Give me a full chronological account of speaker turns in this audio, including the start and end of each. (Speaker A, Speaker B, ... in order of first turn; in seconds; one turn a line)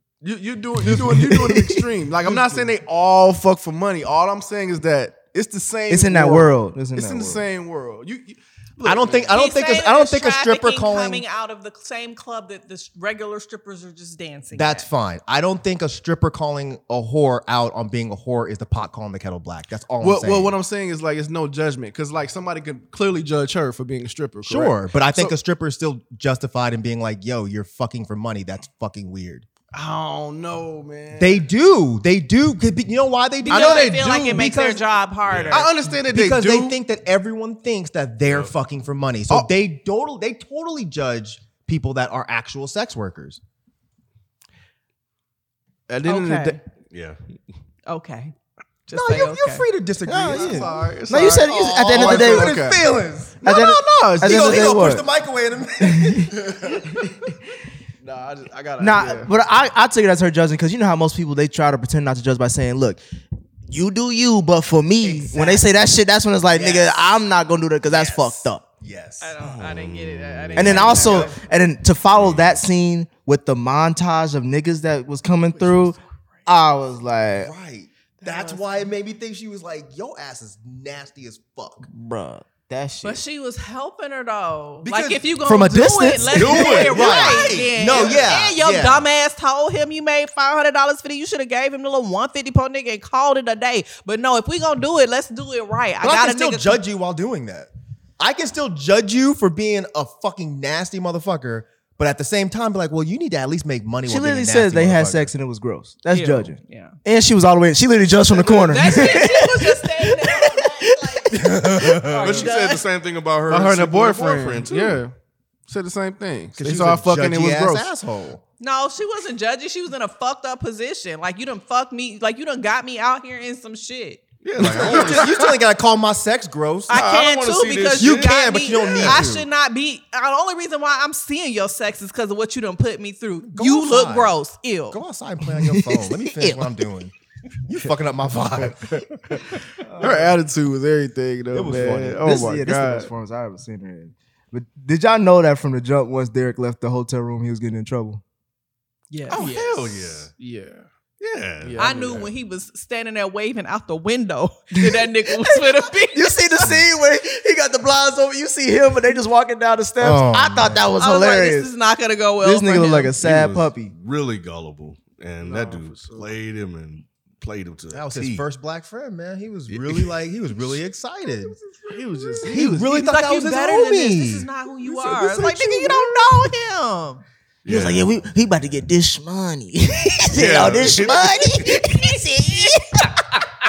Speaker A: 0.2-9.4
Speaker B: 0.8-1.3
Speaker C: 0.9-1.8
Speaker B: 2.2-2.7
Speaker C: 5.9-7.4
Speaker B: 8.8-11.2
Speaker D: 9.3-14.9
Speaker B: 14.5-20.6
Speaker A: 20.0-25.4
Speaker B: 24.4-29.5
Speaker A: 29.7-31.4
Speaker B: 31.1-34.6
Speaker D: 33.4-35.7
Speaker A: 33.5-34.8
Speaker E: 35.2-35.7
Speaker A: 35.5-36.8
Speaker B: 36.0-43.4
Speaker A: 45.9-46.6
Speaker D: 46.0-46.6
Speaker E: 46.9-47.3
Speaker D: 47.9-48.3
Speaker D: 48.9-49.6
Speaker B: 48.9-50.9
Speaker C: 50.1-52.6
Speaker A: 50.1-52.9
Speaker B: 51.4-53.4
Speaker A: 53.4-55.0
Speaker C: 53.4-55.1
Speaker B: 54.2-56.9
Speaker C: 55.8-56.3
Speaker A: 56.3-57.0
Speaker A: 58.0-59.3
Speaker C: 58.8-63.0
Speaker C: 63.6-68.7
Speaker D: 65.0-65.6
Speaker B: 66.5-67.0
Speaker B: 67.8-69.3
Speaker D: 69.2-71.4
Speaker E: 69.4-71.1
Speaker C: 70.5-77.5
Speaker B: 70.6-71.4
Speaker E: 72.1-72.5
Speaker B: 77.4-81.9
Speaker D: 78.2-78.7
Speaker C: 81.8-83.2
Speaker D: 83.0-96.8
Speaker B: 84.8-85.3
Speaker C: 85.4-86.9
Speaker E: 86.3-88.3
Speaker B: 86.4-89.0
Speaker B: 96.0-105.3
Speaker C: 104.0-112.0
Speaker D: 106.1-107.0
Speaker D: 108.4-111.3
Speaker B: 111.3-112.5
Speaker D: 112.0-112.8
Speaker E: 112.2-115.0
Speaker A: 113.5-115.1
Speaker A: 115.7-117.9
Speaker B: 116.6-118.4
Speaker D: 118.6-124.2
Speaker E: 124.4-125.5
Speaker B: 124.6-126.9
Speaker A: 124.6-125.1
Speaker D: 126.9-135.0
Speaker E: 126.9-129.3
Speaker B: 128.0-129.4
Speaker B: 133.4-134.4
Speaker B: 134.9-137.1
Speaker C: 135.6-136.7
Speaker B: 137.7-140.1
Speaker A: 138.6-143.1
Speaker C: 139.8-140.3
Speaker B: 141.5-142.2
Speaker C: 142.2-148.2
Speaker D: 149.1-149.5
Speaker E: 149.3-150.3
Speaker A: 149.3-150.9
Speaker E: 151.2-151.9
Speaker A: 151.6-152.3
Speaker D: 151.8-156.5
Speaker C: 154.8-161.7
Speaker B: 160.0-160.8
Speaker D: 161.0-163.1
Speaker C: 162.4-163.9
Speaker E: 163.2-168.4
Speaker A: 165.4-166.3
Speaker B: 167.9-171.6
Speaker E: 169.7-170.1
Speaker A: 171.6-172.8
Speaker D: 172.4-177.2
Speaker B: 172.4-176.2
Speaker E: 177.6-178.2
Speaker C: 177.7-183.4
Speaker E: 180.3-181.6